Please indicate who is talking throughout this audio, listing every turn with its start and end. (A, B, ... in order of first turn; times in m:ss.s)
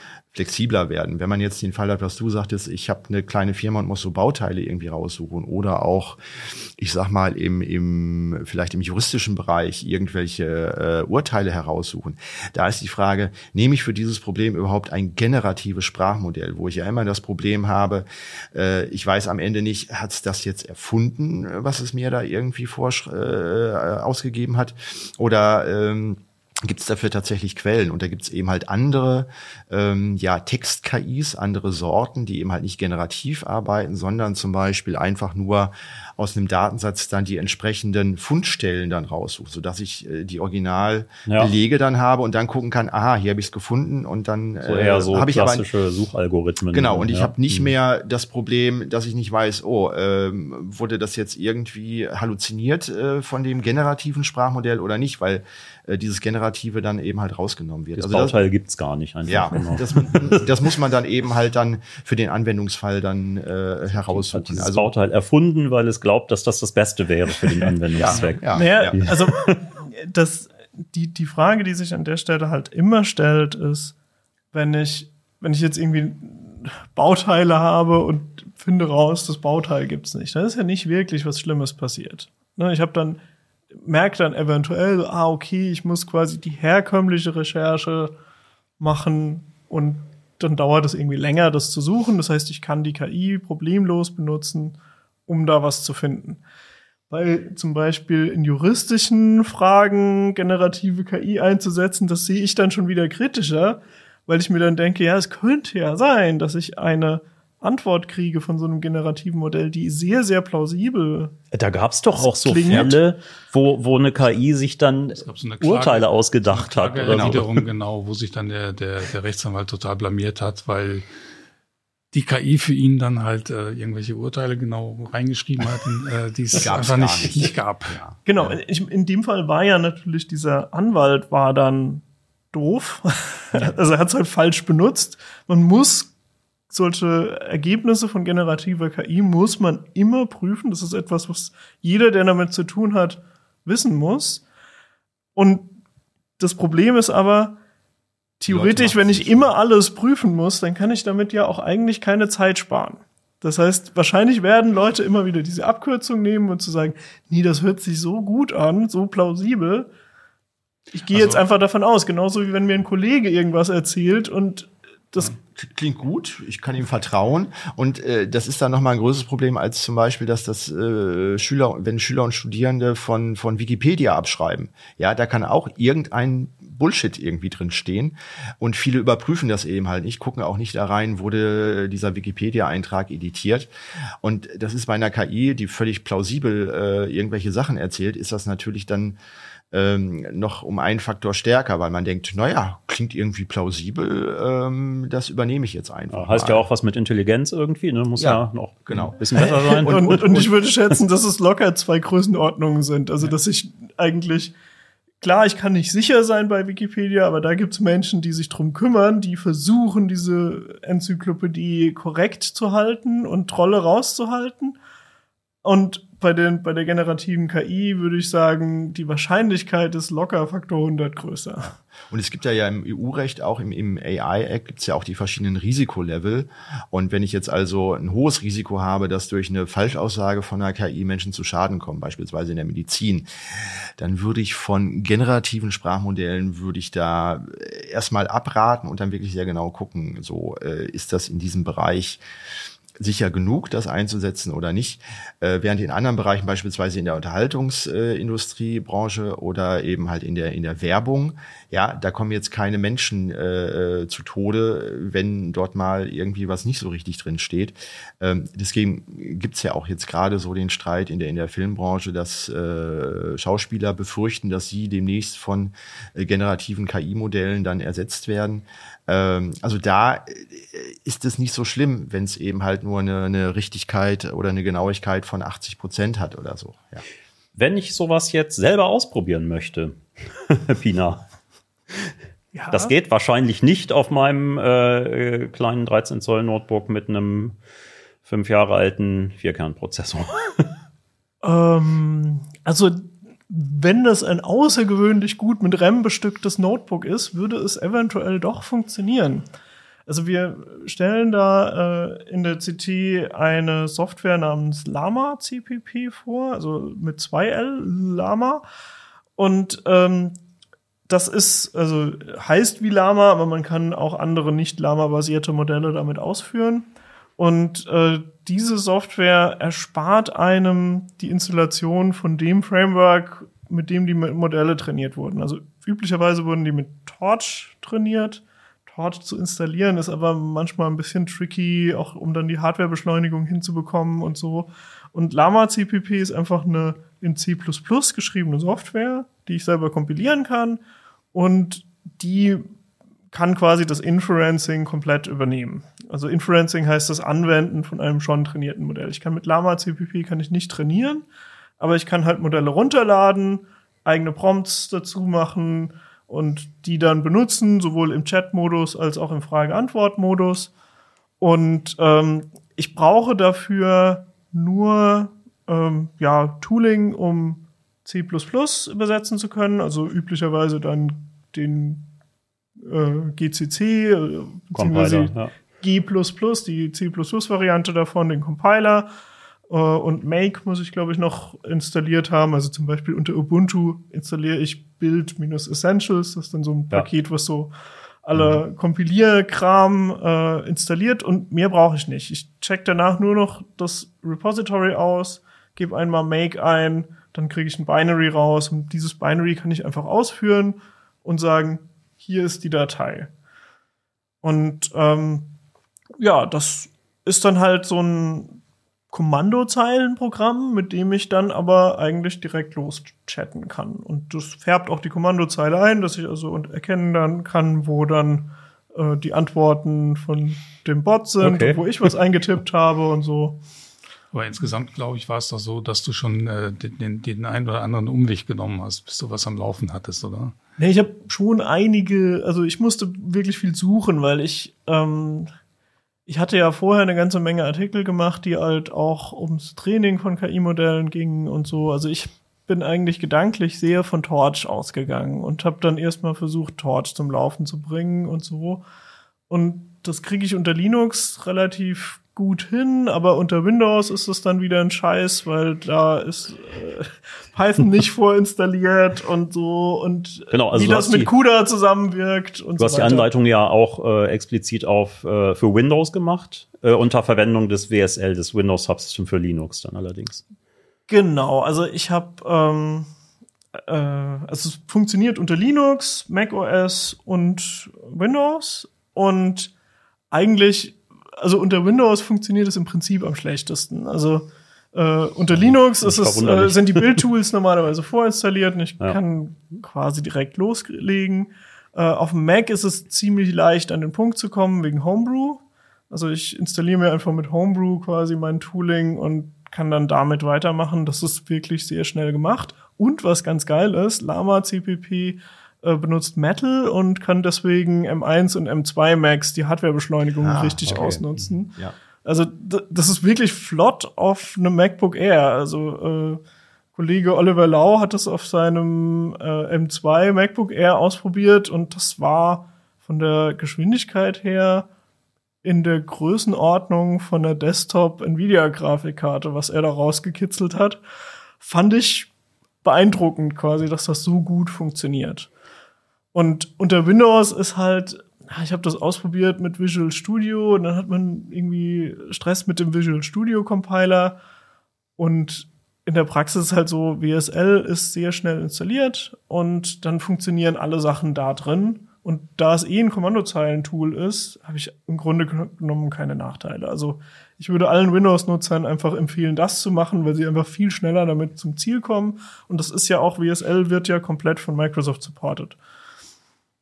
0:00.3-0:45.7 A
0:41.3-0:41.5 B
0:44.6-0:47.7 B
0:46.7-0:58.4 A
0:58.0-1:00.5 B
0:59.3-1:04.9 A
1:04.0-1:09.6 B
1:08.0-1:09.0 A
1:08.5-1:13.9 C
1:14.5-1:23.2 C
1:23.8-1:28.1 C
1:28.8-1:36.4 C
1:37.1-1:51.4 C
1:51.5-1:57.6 B
1:52.2-1:53.0 C
1:55.2-2:01.0 D
1:57.1-1:57.4 A
2:02.1-2:08.0 D
2:06.6-2:08.6 A
2:08.2-2:16.1 C
2:16.7-2:24.4 C
2:25.3-2:25.8 C
2:26.4-2:27.6 C
2:28.4-2:39.9 C
2:28.5-2:29.5 A
2:40.9-2:45.4 C
2:41.1-2:41.4 D
2:45.4-3:03.7 A
3:04.2-3:09.2 A
3:09.7-3:16.6 A
3:16.1-3:20.4 B
3:18.2-3:20.5 A
3:19.3-3:24.5 C
3:25.2-3:34.8 C
3:35.6-3:41.7 C
3:42.1-4:02.2 A
4:03.0-4:37.0 A
4:37.6-4:41.2 B
4:42.5-4:42.9 C
4:42.7-4:47.6 B
4:48.2-4:50.7 B
4:51.4-4:59.4 C
5:00.1-5:08.6 C
5:09.4-5:10.4 C
5:11.1-5:40.8 C
5:41.3-5:42.6 C
5:43.3-5:51.2 C
5:51.8-6:00.7 C
6:01.4-6:12.0 C
6:12.8-6:19.1 C
6:14.7-6:15.5 B
6:19.7-6:27.7 C
6:28.2-6:43.3 C
6:44.4-6:45.5 C
6:46.2-6:48.6 C
6:49.1-7:03.6 C
7:01.4-7:01.8 B
7:04.3-7:10.5 D
7:10.8-7:15.5 C
7:16.3-7:28.8 C
7:29.5-7:43.3 C
7:40.5-7:41.3 B
7:42.8-7:50.4 B
7:51.1-7:53.1 C
7:53.9-7:59.7 C
8:00.3-8:36.4 C
8:05.5-8:07.2 B
8:30.4-8:31.2 A
8:30.9-8:31.2 B
8:36.9-8:44.9 C
8:45.6-8:51.0 C
8:51.6-8:52.3 C
8:52.8-8:55.5 C
8:56.3-9:04.4 C
9:05.2-9:25.8 C